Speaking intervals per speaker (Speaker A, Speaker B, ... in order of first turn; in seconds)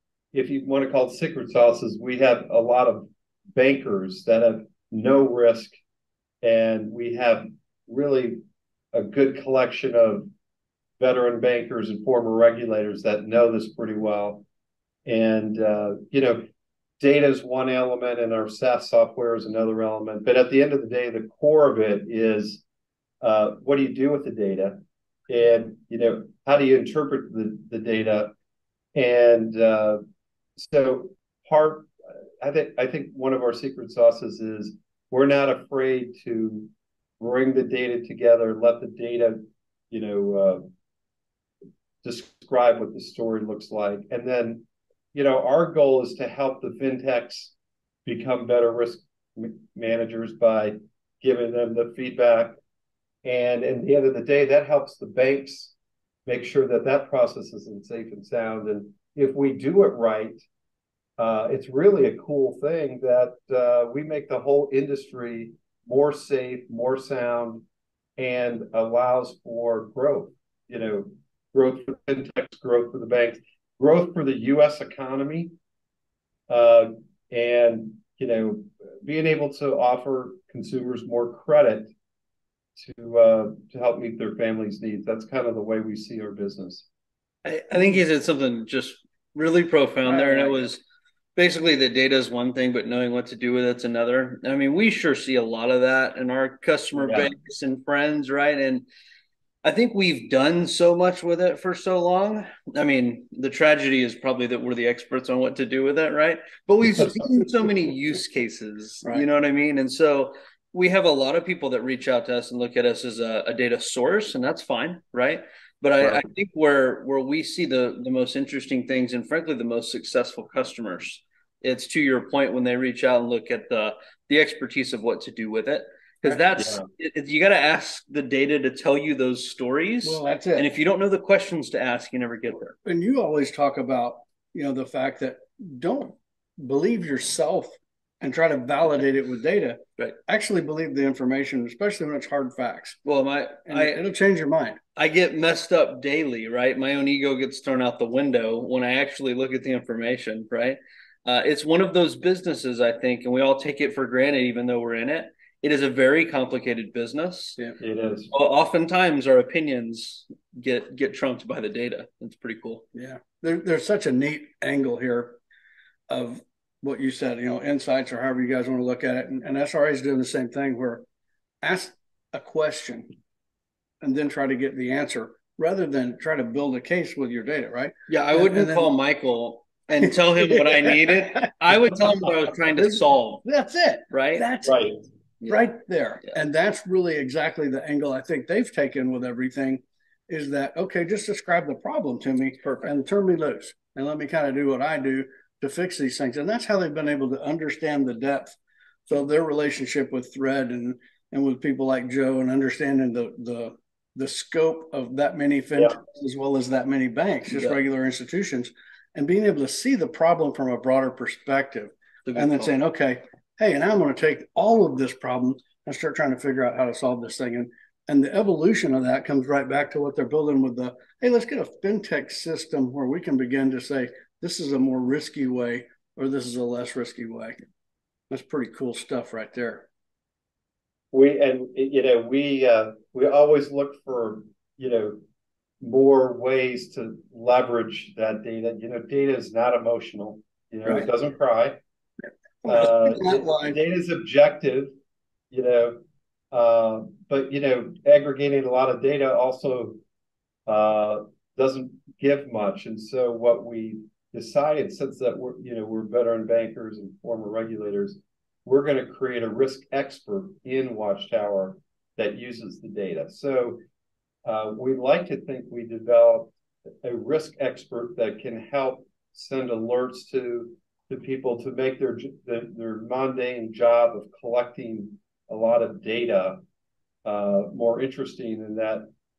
Speaker A: 0.3-5.8, 6.4-8.4, 8.9-10.3, 11.0-14.4, 15.1-16.4, 17.0-22.6, 23.2-28.3, 28.9-30.0, 30.6-40.6, 42.0-47.5, 48.0-52.6, 53.2-55.7, 56.2-60.4, 61.2-67.6, 68.2-75.5, 76.5-81.9, 82.8-86.8, 97.0-97.3, 126.6-126.8, 157.8-158.3, 184.6-185.0, 231.1-235.2, 235.8-241.8, 242.7-244.9, 245.5-246.0, 246.5-250.0, 250.7-263.8, 264.4-276.6, 277.2-279.1
Speaker B: 87.4-90.8, 91.3-98.8, 99.6-132.8, 143.0-144.0, 144.9-157.6, 158.3-162.8, 178.1-183.4, 184.1-184.5, 192.6-192.9, 212.2-212.7
Speaker C: 90.1-90.5, 130.0-130.7, 132.8-143.0, 143.7-144.8, 162.9-165.4, 166.1-171.0, 171.6-173.1, 174.0-178.9, 180.0-184.9, 185.5-227.6, 228.3-229.8, 242.6-243.8